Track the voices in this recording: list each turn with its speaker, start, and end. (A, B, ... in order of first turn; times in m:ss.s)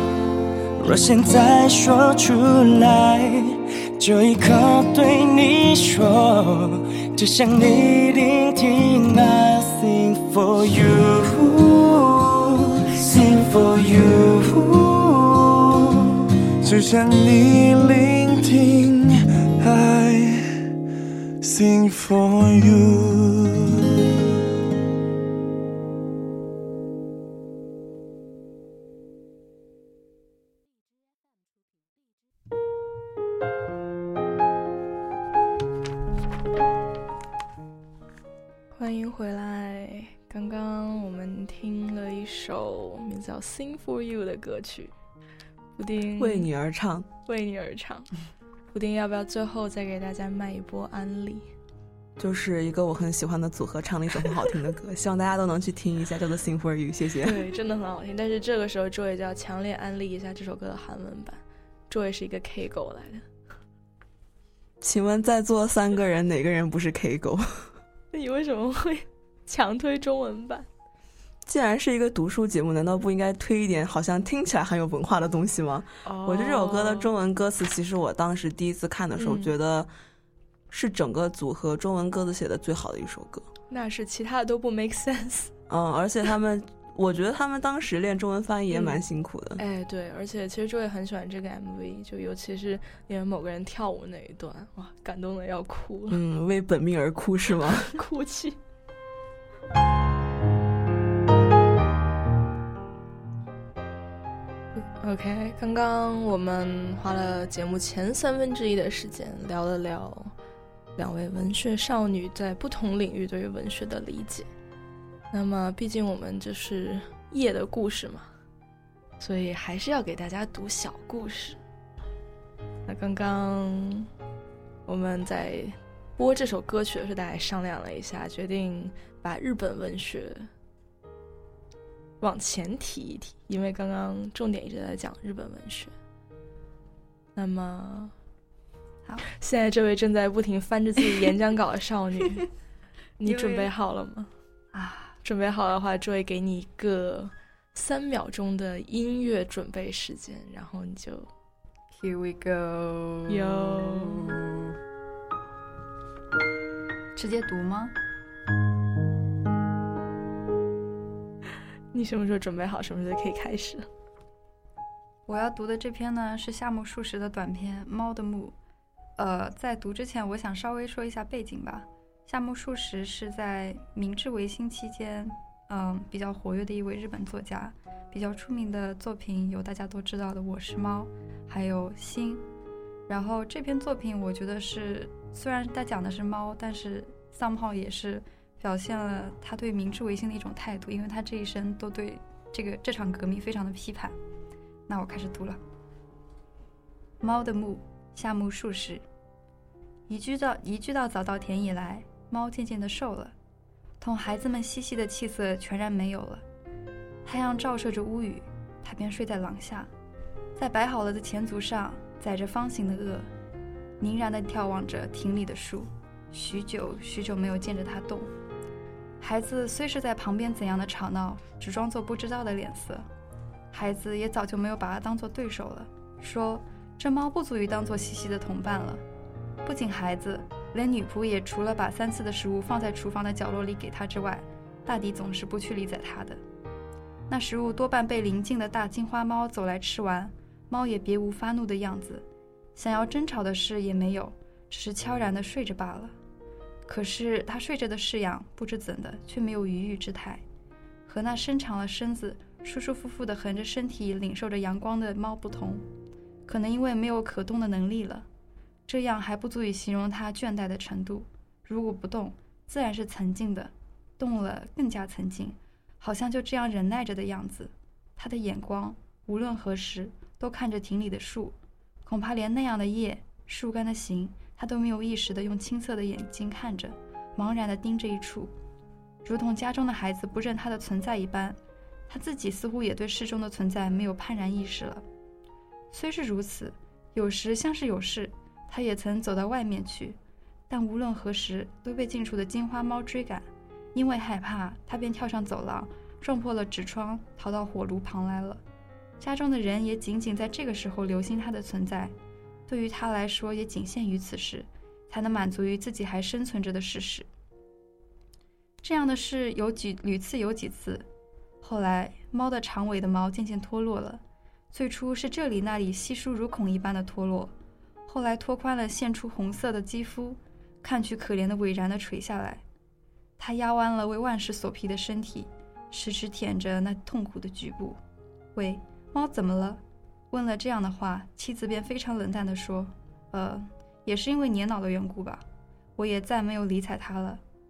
0:00.8-0:12.3 A
0:13.0-0:15.6 A
0:16.6-0:20.5 B
0:21.4-0:23.8 B
0:38.7-0:44.9 C
0:45.8-0:46.5 C
0:46.2-0:47.1 D
0:47.2-0:48.1 C
0:48.7-0:51.5 C
0:52.2-0:57.4 D
0:57.2-1:03.2 C
1:04.8-1:07.7 D
1:08.1-1:10.6 C
1:11.4-1:19.9 D
1:16.0-1:17.1 C
1:19.2-1:19.5 C
1:20.7-1:23.5 D
1:23.7-1:25.5 C
1:25.7-1:29.6 D
1:28.7-1:29.0 C
1:29.6-1:36.2 C
1:36.1-1:37.9 D
1:37.9-1:38.6 C
1:44.8-1:50.3 C
1:51.0-1:54.5 C
1:55.3-1:58.3 C
1:59.2-2:01.6 C
2:02.9-2:04.1 C
2:04.9-2:10.5 C
2:12.2-2:15.9 C
2:17.4-2:18.1 C
2:19.4-2:22.5 C
2:23.2-2:24.3 C
2:23.2-2:23.7 E
2:24.7-2:25.1 E
2:25.2-2:31.3 C
2:31.9-2:34.6 E
2:33.3-2:34.4 C
2:37.2-2:37.9 E
2:41.9-2:43.9 C
2:45.3-2:48.5 E
2:49.2-3:02.4 E
3:03.1-3:14.2 E
3:14.9-3:15.6 E
3:17.2-3:19.0 E
3:20.1-3:23.3 E
3:24.0-3:26.4 E
3:27.2-3:29.9 E
3:30.6-3:33.3 E
3:34.0-3:38.3 E
3:39.2-3:43.0 E
3:43.7-3:49.0 E
3:49.6-3:56.4 E
3:57.3-4:02.2 E
4:02.8-4:06.2 E
4:06.9-4:10.4 E
4:11.0-4:15.8 E
4:16.5-4:18.3 E
4:18.9-4:38.5 E
4:39.2-4:45.0 E
4:45.9-4:50.2 E
4:50.7-4:58.6 E
4:59.2-5:02.1 E
5:02.7-5:07.3 E
5:08.8-5:11.1 E
5:11.6-5:17.5 E
5:18.1-5:22.6 E
5:23.4-5:28.0 E
5:28.5-5:35.4 E
5:36.0-5:37.4 E